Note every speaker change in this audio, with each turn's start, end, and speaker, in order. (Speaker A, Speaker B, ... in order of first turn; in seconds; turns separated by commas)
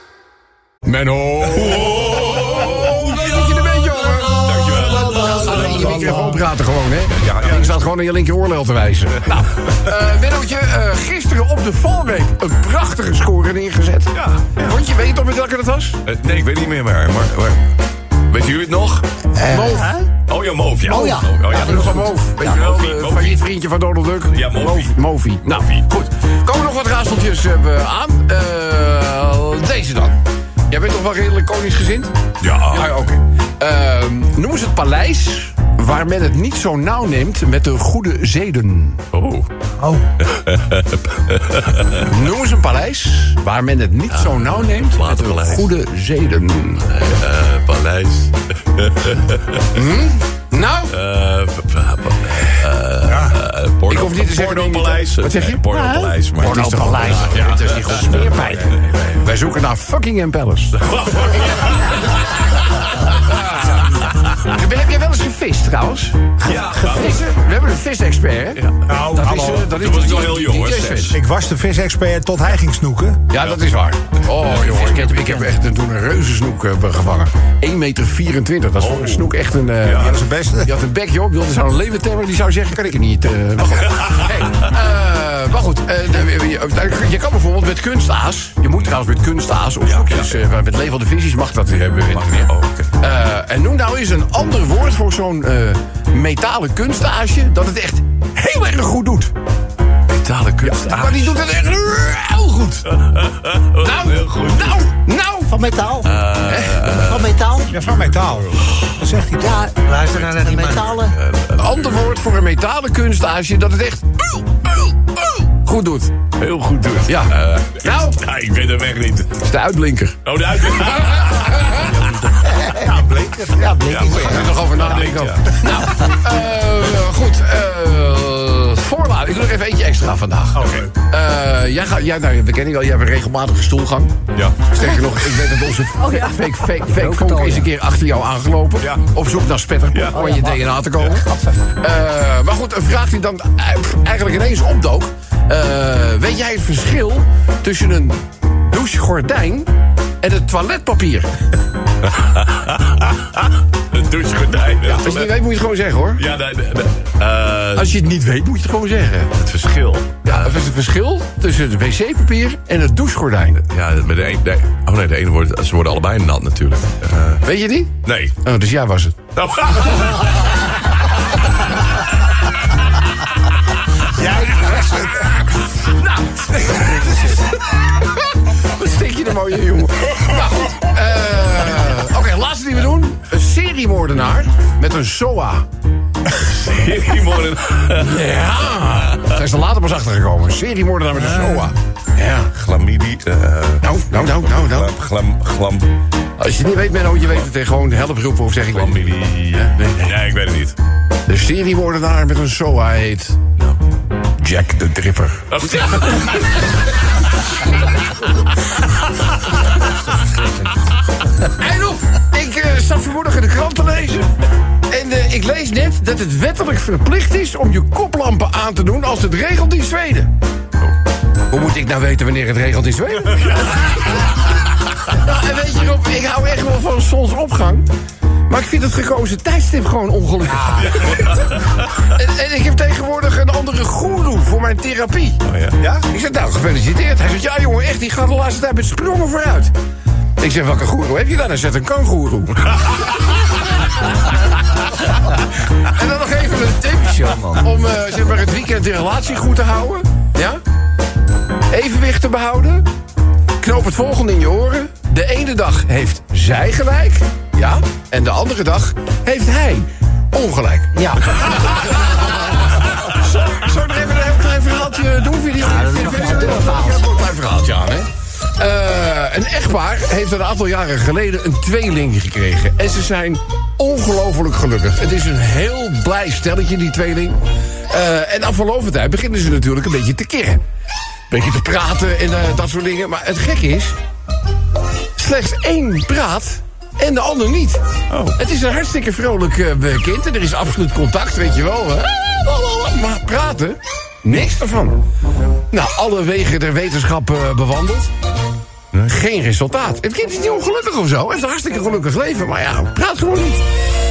Speaker A: 0.8-16.0, Speaker B: 1.6-3.2, Speaker B: 4.3-6.0, Speaker B: 7.1-7.7, Speaker B: 14.1-14.8, Speaker B: 16.1-17.7, Speaker B: 18.3-19.2, Speaker C: 19.4-20.1, Speaker A: 19.5-19.9, Speaker B: 20.2-23.4, Speaker A: 20.8-30.2, Speaker C: 20.8-22.6, Speaker B: 24.3-25.8, Speaker A: 30.7-32.1, Speaker B: 32.4-33.0, Speaker A: 32.7-39.0, Speaker B: 39.1-39.5, Speaker D: 39.8-40.1, Speaker B: 40.2-42.1, Speaker A: 42.0-46.8, Speaker B: 44.1-45.7, Speaker B: 46.8-49.7, Speaker A: 49.7-50.9, Speaker B: 50.9-58.8, Speaker A: 53.9-60.8, Speaker C: 55.8-57.3, Speaker B: 60.8-62.1, Speaker A: 63.2-71.2, Speaker B: 66.4-67.3, Speaker B: 68.6-68.9, Speaker D: 68.9-69.7, Speaker B: 69.6-71.2, Speaker D: 71.1-73.2, Speaker A: 73.3-99.3, Speaker B: 74.3-75.4, Speaker B: 78.8-79.3, Speaker B: 79.8-80.2, Speaker D: 80.1-80.7, Speaker B: 89.9-90.3, Speaker B: 92.1-92.9, Speaker B: 100.1-101.4, Speaker A: 100.6-102.9, Speaker B: 102.9-104.9, Speaker A: 103.8-105.6, Speaker C: 105.5-106.3, Speaker B: 106.0-108.1, Speaker A: 106.4-106.9, Speaker C: 106.8-107.8, Speaker D: 107.7-109.6, Speaker C: 109.4-111.2, Speaker B: 110.0-112.2, Speaker A: 111.6-114.4, Speaker A: 115.6-116.2, Speaker B: 116.4-119.4, Speaker A: 117.1-118.2, Speaker A: 119.4-120.2, Speaker B: 120.2-122.8, Speaker A: 121.4-121.9, Speaker D: 122.8-123.9, Speaker C: 123.6-124.3, Speaker B: 123.7-125.6, Speaker A: 124.1-134.2, Speaker B: 130.6-130.9, Speaker B: 134.3-134.7, Speaker A: 134.7-149.7, Speaker C: 137.0-137.7, Speaker B: 138.8-139.1, Speaker B: 139.9-140.4, Speaker C: 140.2-140.6, Speaker C: 141.3-141.6, Speaker A: 150.2-151.3, Speaker B: 152.2-155.3, Speaker A: 154.9-156.2, Speaker B: 156.2-158.0, Speaker A: 157.8-159.3, Speaker B: 159.3-160.6, Speaker A: 160.2-163.6, Speaker B: 163.6-167.4, Speaker A: 167.4-169.2, Speaker B: 168.0-168.4, Speaker B: 169.3-170.2, Speaker C: 174.5-175.1, Speaker A: 175.9-177.4, Speaker A: 178.5-185.7, Speaker B: 186.3-188.3, Speaker A: 188.0-192.5, Speaker B: 192.5-195.9, Speaker A: 193.8-194.9, Speaker A: 196.4-200.2, Speaker B: 198.7-200.8, Speaker A: 201.3-203.4, Speaker A: 204.4-205.5, Speaker B: 205.5-206.7, Speaker A: 211.5-214.3, Speaker A: 214.9-220.3, Speaker A: 221.5-224.1, Speaker A: 225.2-227.9, Speaker A: 228.5-231.3, Speaker B: 231.1-231.5, Speaker A: 232.1-235.4, Speaker B: 235.5-235.9, Speaker A: 236.0-239.7, Speaker A: 240.4-243.1, Speaker A: 245.9-250.6, Speaker A: 251.7-252.9, Speaker A: 253.6-280.6, Speaker C: 261.0-261.9, Speaker C: 265.6-267.0, Speaker A: 281.3-284.0, Speaker A: 285.2-287.8, Speaker B: 288.1-288.4, Speaker A: 288.4-295.0, Speaker A: 295.7-298.1, Speaker A: 299.0-303.6